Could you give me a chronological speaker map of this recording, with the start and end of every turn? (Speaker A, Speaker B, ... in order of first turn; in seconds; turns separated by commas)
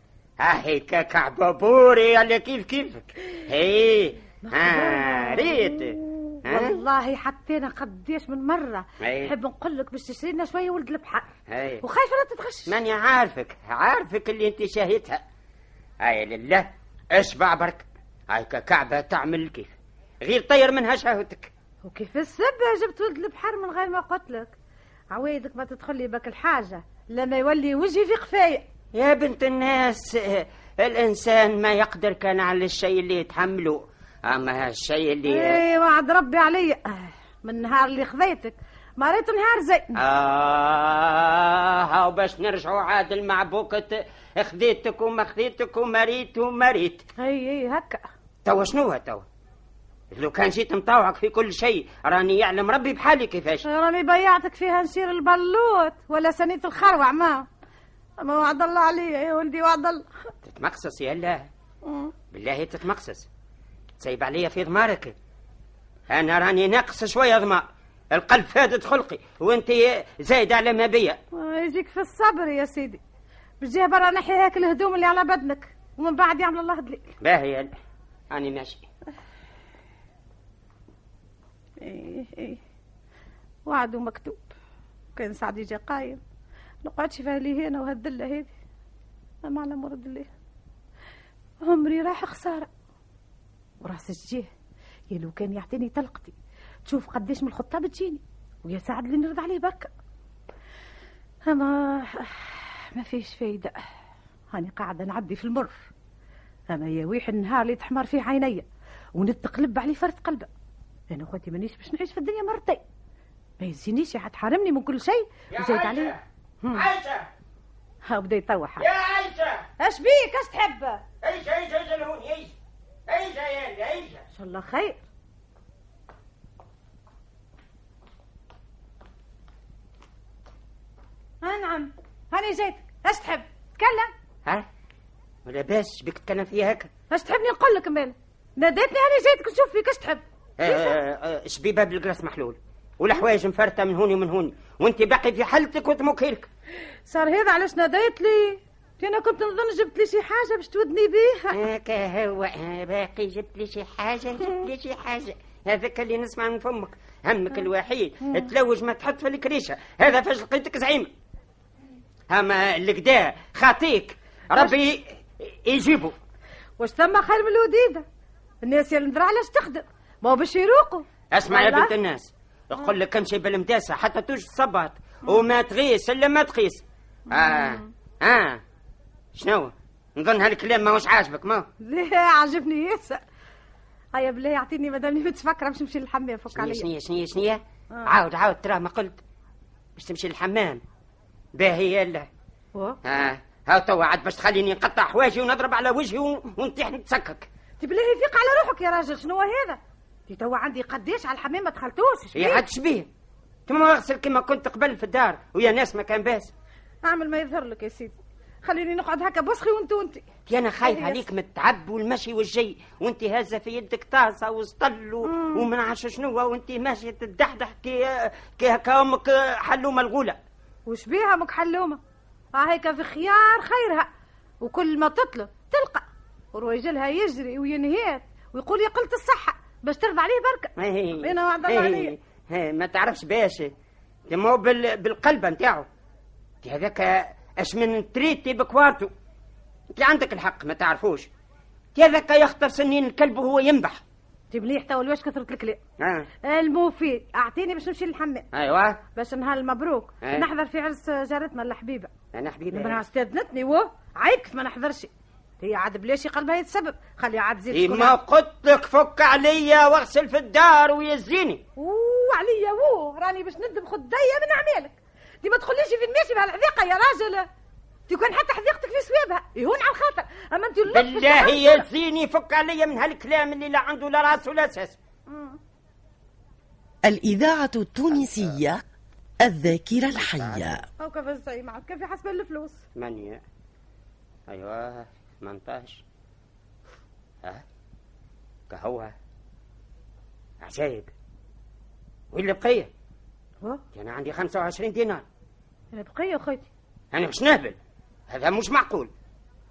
Speaker A: 0.4-6.8, Speaker B: 4.4-11.3, Speaker A: 9.0-9.3, Speaker A: 11.5-11.8, Speaker B: 11.8-12.7, Speaker A: 12.7-15.2, Speaker A: 16.0-21.5, Speaker B: 21.8-24.5, Speaker B: 25.1-28.6, Speaker A: 28.9-35.6, Speaker B: 35.3-40.0, Speaker A: 40.0-47.0, Speaker B: 47.2-48.0, Speaker A: 48.4-49.2, Speaker A: 50.1-53.6, Speaker B: 53.6-57.5, Speaker B: 58.2-60.1, Speaker A: 60.4-61.5, Speaker B: 61.8-62.1, Speaker A: 62.3-63.3, Speaker A: 64.0-65.1, Speaker A: 66.1-71.2, Speaker B: 71.3-73.0, Speaker B: 73.6-77.1, Speaker A: 77.2-77.7, Speaker A: 78.3-78.8, Speaker B: 81.8-82.6, Speaker B: 83.7-84.5, Speaker B: 85.1-86.2, Speaker B: 86.8-88.5, Speaker B: 89.4-90.3, Speaker B: 91.6-92.7, Speaker B: 93.8-94.5, Speaker B: 95.1-99.9, Speaker B: 101.4-103.8, Speaker B: 104.5-105.8, Speaker B: 106.7-110.5, Speaker B: 111.1-112.8, Speaker B: 113.6-116.8, Speaker A: 115.5-116.2, Speaker A: 116.7-117.2, Speaker B: 118.1-118.9, Speaker A: 118.8-119.6, Speaker B: 119.8-121.0, Speaker A: 121.2-122.5, Speaker A: 123.1-124.2, Speaker B: 124.3-125.0, Speaker B: 131.4-134.1, Speaker A: 135.4-136.9, Speaker B: 137.1-141.0, Speaker A: 140.6-146.5, Speaker B: 147.1-151.6, Speaker A: 151.5-161.1, Speaker A: 162.3-166.2, Speaker B: 166.8-168.0, Speaker B: 168.6-171.9, Speaker A: 171.3-178.6, Speaker B: 177.3-177.9, Speaker A: 179.3-181.7, Speaker B: 181.8-183.2, Speaker B: 184.1-186.9, Speaker A: 186.5-189.2, Speaker A: 190.0-190.8, Speaker A: 191.6-192.3, Speaker A: 193.0-197.5, Speaker B: 197.8-202.6, Speaker A: 202.3-203.1, Speaker A: 203.7-206.5, Speaker B: 207.0-210.2, Speaker A: 210.5-220.4, Speaker B: 210.8-211.2, Speaker B: 215.2-215.7, Speaker B: 220.8-222.0, Speaker B: 222.5-224.1, Speaker B: 224.6-232.1, Speaker A: 230.8-233.7, Speaker A: 234.3-235.9, Speaker A: 236.6-239.1, Speaker A: 239.9-241.3, Speaker A: 241.9-244.0, Speaker B: 244.5-245.8, Speaker A: 246.0-246.3, Speaker B: 246.4-248.5, Speaker A: 248.5-249.0, Speaker B: 249.1-252.1, Speaker A: 252.3-253.0, Speaker B: 252.7-255.1, Speaker B: 255.6-258.1, Speaker A: 257.7-261.6, Speaker B: 261.8-267.5, Speaker B: 268.1-271.9, Speaker A: 270.9-275.0, Speaker B: 275.3-275.6, Speaker C: 277.0-278.8, Speaker A: 278.1-278.6, Speaker C: 279.4-280.9, Speaker A: 280.1-280.8, Speaker B: 281.0-282.8, Speaker A: 282.9-283.4, Speaker A: 284.5-286.0, Speaker A: 288.7-289.1, Speaker A: 290.6-291.1, Speaker A: 292.3-292.9, Speaker A: 293.9-295.2, Speaker B: 295.9-296.7, Speaker A: 297.1-297.8, Speaker A: 298.3-299.1